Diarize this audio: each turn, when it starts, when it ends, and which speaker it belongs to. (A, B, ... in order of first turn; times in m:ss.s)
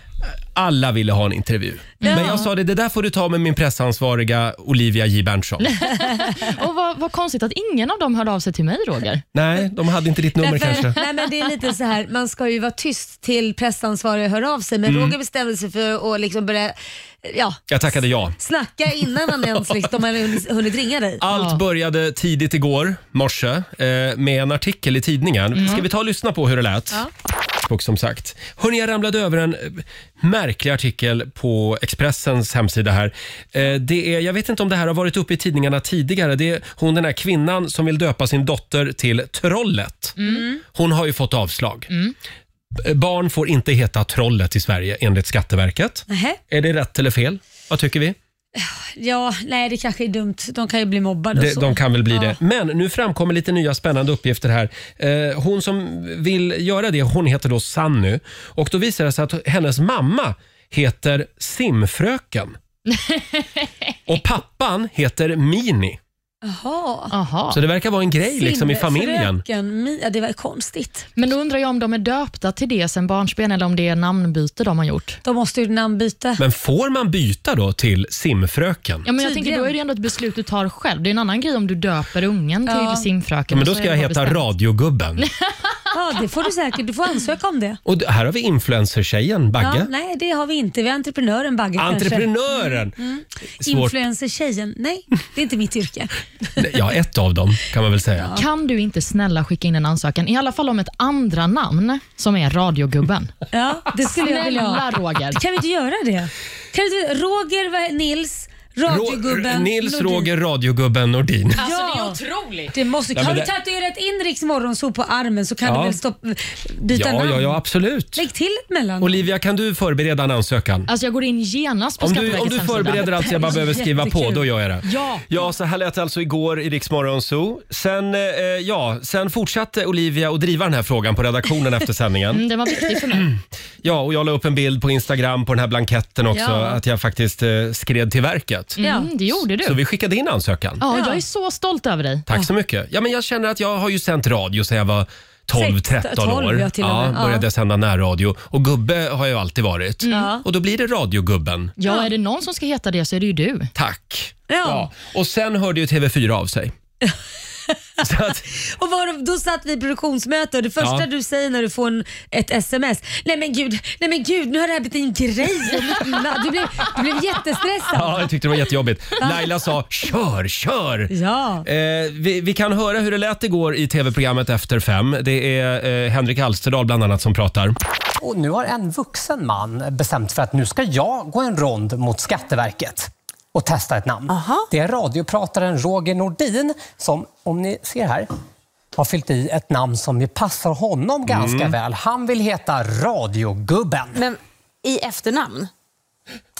0:00.5-0:05.8 A
0:02.0-0:02.4 B
0:02.0-0:02.5 C
0:05.8-0:09.2 B
0:09.3-0:11.0 A
0:10.4-0:17.6 C
0:14.8-0:15.2 A
0:17.7-0:18.4 A
0:18.4-0:21.2 C
0:21.2-0:27.0 A
0:21.3-0:21.6 B
0:25.6-0:25.8 B
0:27.6-0:41.9 A
0:40.2-0:40.4 B
0:40.2-0:40.6 C
0:42.8-0:48.2 A
0:46.1-0:46.4 C
0:48.6-0:52.4 C
0:51.3-1:02.6 A
1:02.9-1:03.2 B
1:04.1-1:06.0 A
1:06.4-1:07.1 C
1:07.1-1:07.6 B
1:07.5-1:09.4 A
1:08.2-1:11.1 C
1:11.2-1:15.2 B
1:15.2-1:16.4 C
1:16.4-1:19.0 A
1:19.0-1:24.5 B
1:19.2-1:19.7 C
1:22.7-1:23.0 C
1:23.5-1:25.2 A
1:25.9-1:27.8 C
1:27.8-1:29.9 A
1:29.6-1:36.1 C
1:31.8-1:33.0 A
1:33.6-1:33.9 A
1:36.6-1:38.4 A
1:38.3-1:43.3 B
1:43.5-1:50.3 C
1:44.0-1:45.4 B
1:48.8-1:51.6 A
1:51.6-1:52.7 B
1:51.6-1:52.2 C
1:52.7-1:57.6 C
1:53.1-1:53.5 A
1:55.6-1:56.0 A
1:56.9-1:58.2 A
1:58.2-1:59.2 C
1:59.0-2:00.9 A
2:00.9-2:03.6 B
2:02.0-2:12.4 A
2:02.9-2:04.5 C
2:04.8-2:05.3 B
2:12.3-2:13.3 B
2:13.2-2:18.8 A
2:16.3-2:16.8 C
2:18.8-2:19.8 B
2:18.8-2:19.1 C
2:19.3-2:20.8 A
2:20.8-2:22.2 B
2:20.9-2:21.2 C
2:22.3-2:31.7 A
2:25.5-2:27.4 C
2:30.1-2:30.4 C
2:31.8-2:33.7 B
2:33.8-2:36.7 A
2:34.5-2:34.9 C
2:38.0-2:38.4 A
2:38.5-2:48.3 C
2:40.8-2:41.0 A
2:47.9-2:51.1 A
2:51.1-2:51.6 C
2:51.6-2:57.8 A
2:58.2-3:08.3 D
3:04.3-3:04.7 E
3:08.9-3:14.2 D
3:11.3-3:11.7 A
3:14.1-3:15.7 E